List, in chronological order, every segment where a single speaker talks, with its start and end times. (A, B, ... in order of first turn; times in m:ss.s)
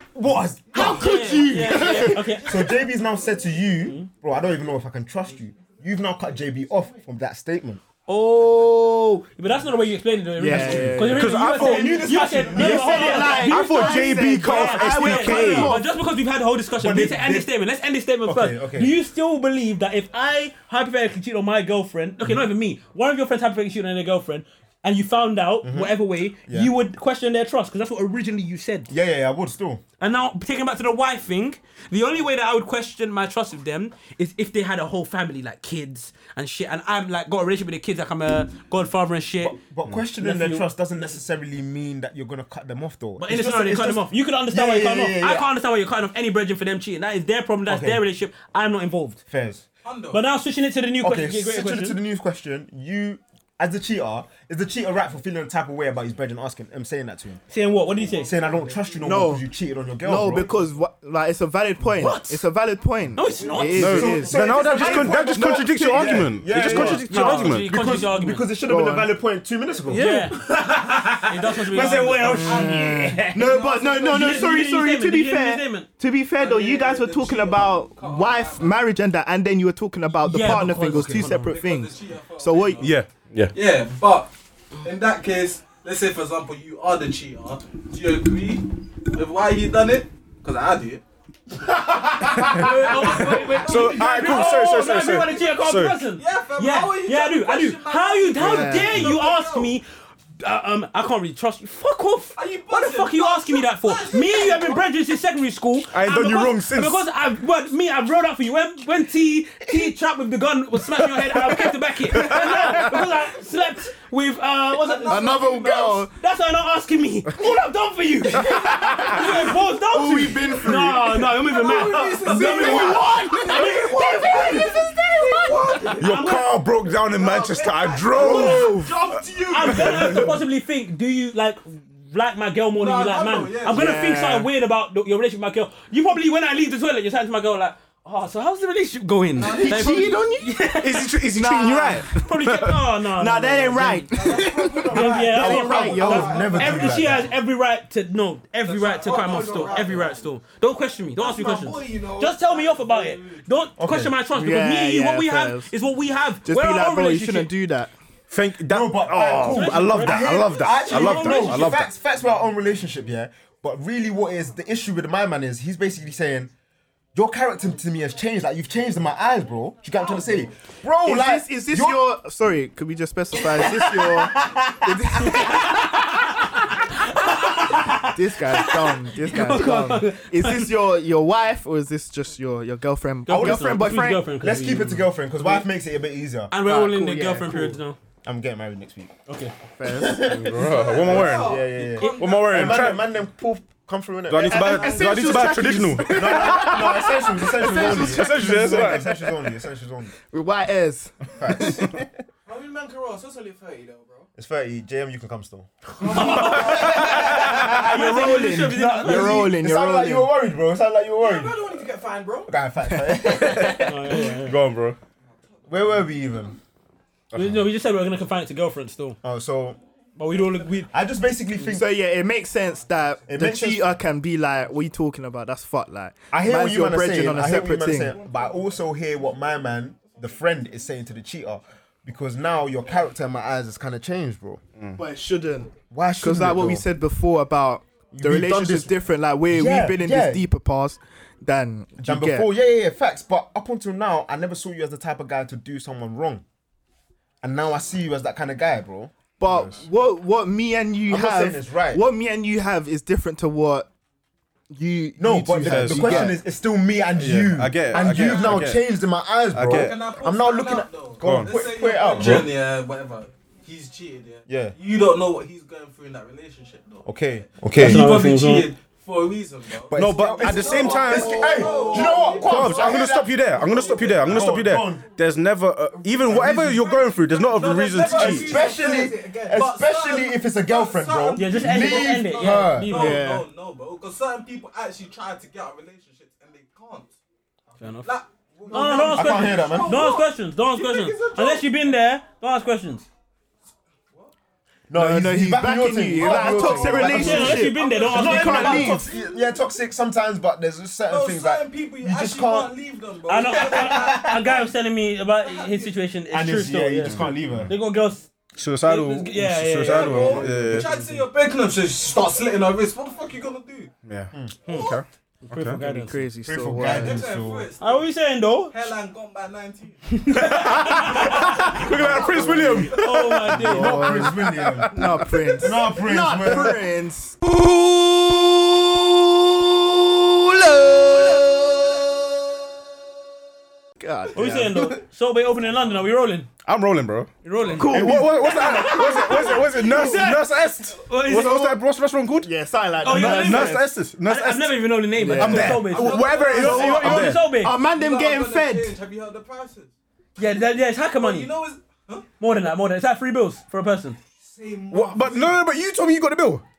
0:00.2-0:07.8 A
0:00.7-0:02.5 B
0:00.8-0:02.5 C
0:03.8-0:04.1 C
0:08.1-0:09.2 B
0:08.1-0:28.9 C
0:10.4-0:11.3 B
0:10.7-0:15.8 D
0:11.3-0:13.5 A
0:12.5-0:15.9 B
0:16.8-0:17.5 A
0:18.2-0:19.0 A
0:25.6-0:26.7 A
0:28.9-0:29.8 A
0:30.0-0:39.6 C
0:39.4-0:45.5 A
0:40.2-0:40.7 C
0:43.2-0:49.2 C
0:47.7-0:48.0 A
0:49.3-0:49.6 A
0:49.8-0:50.2 E
0:50.1-0:52.0 C
0:51.0-0:57.4 A
0:57.5-0:58.3 C
0:58.0-0:59.0 E
0:58.2-1:00.5 A
0:59.0-0:59.5 B
1:00.0-1:07.0 B
1:02.0-1:02.4 C
1:03.2-1:04.3 C
1:03.8-1:07.7 D
1:03.8-1:10.1 A
1:06.6-1:08.5 C
1:08.6-1:09.1 B
1:09.9-1:15.9 C
1:09.9-1:10.3 B
1:11.6-1:14.5 E
1:12.3-1:22.9 B
1:16.4-1:18.8 E
1:20.2-1:21.6 C
1:21.2-1:23.0 E
1:22.8-1:23.5 D
1:23.5-1:31.0 E
1:32.1-1:34.5 E
1:32.4-1:36.0 D
1:32.4-1:39.8 C
1:36.2-1:39.7 E
1:38.4-1:39.1 B
1:40.4-2:06.5 C
1:42.4-1:44.9 E
1:45.9-1:47.0 D
1:52.1-1:52.9 D
1:54.8-1:56.0 E
1:55.1-1:56.1 B
1:58.3-2:01.4 B
2:01.5-2:03.1 E
2:01.5-2:06.1 F
2:03.0-2:03.9 B
2:06.0-2:08.7 D
2:07.1-2:10.3 F
2:08.1-2:08.8 C
2:08.2-2:09.0 B
2:09.4-2:09.9 E
2:09.5-2:21.2 C
2:09.7-2:10.3 D
2:12.8-2:13.8 E
2:13.7-2:14.5 B
2:19.4-2:20.2 E
2:19.4-2:22.3 B
2:20.8-2:22.8 D
2:22.2-2:24.1 C
2:23.1-2:26.8 B
2:24.1-2:24.8 E
2:24.2-2:27.0 F
2:24.8-2:27.3 A
2:24.9-2:37.5 C
2:28.6-2:30.2 E
2:28.9-2:30.2 F
2:31.2-2:33.4 F
2:33.8-2:34.2 A
2:34.3-2:35.7 B
2:36.4-2:37.9 B
2:38.3-2:41.9 D
2:38.7-2:46.5 A
2:39.4-2:41.8 C
2:47.2-2:52.0 A
2:51.0-2:56.2 B
2:53.4-2:55.4 A
2:55.3-3:00.8 C
2:58.0-3:04.2 B
3:03.3-3:05.6 C
3:04.4-3:06.5 A
3:06.5-3:08.0 C
3:06.6-3:07.8 B
3:08.2-3:09.1 A
3:09.3-3:09.5 C
3:09.8-3:10.5 B
3:09.9-3:15.1 A
3:10.3-3:13.1 D
3:10.6-3:13.0 E
3:10.8-3:12.1 F
3:14.3-3:19.3 D
3:14.4-3:19.3 B
3:14.5-3:15.6 E
3:16.1-3:20.1 A
3:20.3-3:21.9 B
3:21.4-3:22.1 A
3:22.5-3:24.3 F
3:24.4-3:26.4 A
3:26.0-3:27.7 F
3:26.1-3:29.5 C
3:26.9-3:31.8 A
3:27.5-3:30.3 B
3:31.2-3:32.5 F
3:32.5-3:34.2 A
3:33.0-3:33.6 B
3:33.2-3:35.0 D
3:33.8-3:34.6 C
3:35.7-3:36.6 A
3:37.3-3:39.2 C
3:39.2-3:39.8 A
3:40.2-3:40.9 C
3:40.9-3:41.9 A
3:41.7-3:48.2 B
3:43.3-3:43.9 A
3:46.3-3:54.6 A
3:55.0-4:02.5 B
3:55.9-3:56.8 A
3:58.1-3:58.9 A
3:59.5-4:00.5 A
4:02.0-4:06.4 A
4:07.4-4:09.1 A
4:09.4-4:13.9 B
4:11.1-4:12.0 A
4:14.7-4:16.4 B
4:15.2-4:22.6 A
4:15.6-4:16.4 D
4:17.2-4:18.8 D
4:18.0-4:18.5 E
4:18.2-4:18.6 F
4:19.5-4:20.0 D
4:19.7-4:32.7 E
4:21.2-4:21.5 D
4:27.1-4:28.1 A
4:27.8-4:28.7 C
4:29.9-4:35.1 A
4:29.9-4:31.5 D
4:30.5-4:34.2 F
4:32.4-4:38.6 D
4:33.6-4:34.6 E
4:36.3-4:38.9 E
4:37.9-4:40.0 F
4:38.0-4:42.9 A
4:39.5-4:47.2 E
4:41.4-4:43.2 C
4:42.9-4:43.5 B
4:47.8-4:48.2 C
4:48.0-4:50.1 E
4:48.6-4:50.2 F
4:48.7-4:53.1 C
4:49.1-4:50.1 A
4:50.8-4:51.7 E
4:51.1-4:51.4 F
4:54.9-5:02.8 A
4:54.9-4:59.0 B
4:56.2-4:56.9 E
4:56.4-4:57.0 F
4:56.9-4:58.9 C
4:57.5-4:58.8 E
5:01.1-5:04.7 E
5:03.3-5:08.3 C
5:03.5-5:04.3 A
5:05.4-5:06.0 E
5:06.3-5:07.7 A
5:07.0-5:07.7 D
5:08.6-5:10.9 D
5:08.8-5:10.5 C
5:09.8-5:13.9 E
5:14.0-5:15.8 D
5:14.7-5:15.0 C
5:15.5-5:16.2 C
5:15.7-5:17.2 B
5:16.4-5:17.7 A
5:16.8-5:18.1 E
5:17.8-5:18.7 C
5:18.7-5:23.0 E
5:20.2-5:21.9 C
5:20.3-5:23.5 D
5:22.1-5:32.1 B
5:22.9-5:24.2 C
5:23.6-5:26.8 A
5:34.0-5:35.0 B
5:34.4-5:36.5 C
5:36.6-5:37.3 D
5:37.4-5:41.7 C
5:37.7-5:40.3 B
5:37.9-5:42.5 D
5:37.9-5:39.0 A
5:41.3-5:41.8 B
5:42.4-5:43.9 B
5:43.0-5:47.7 C
5:43.1-5:47.4 D
5:45.2-5:49.0 B
5:45.8-5:47.2 E
5:47.8-5:49.9 E
5:50.4-5:51.5 C
5:51.2-5:52.3 E
5:52.4-5:54.2 C
5:54.4-5:55.6 F
5:54.6-5:55.2 E
5:54.9-5:56.6 D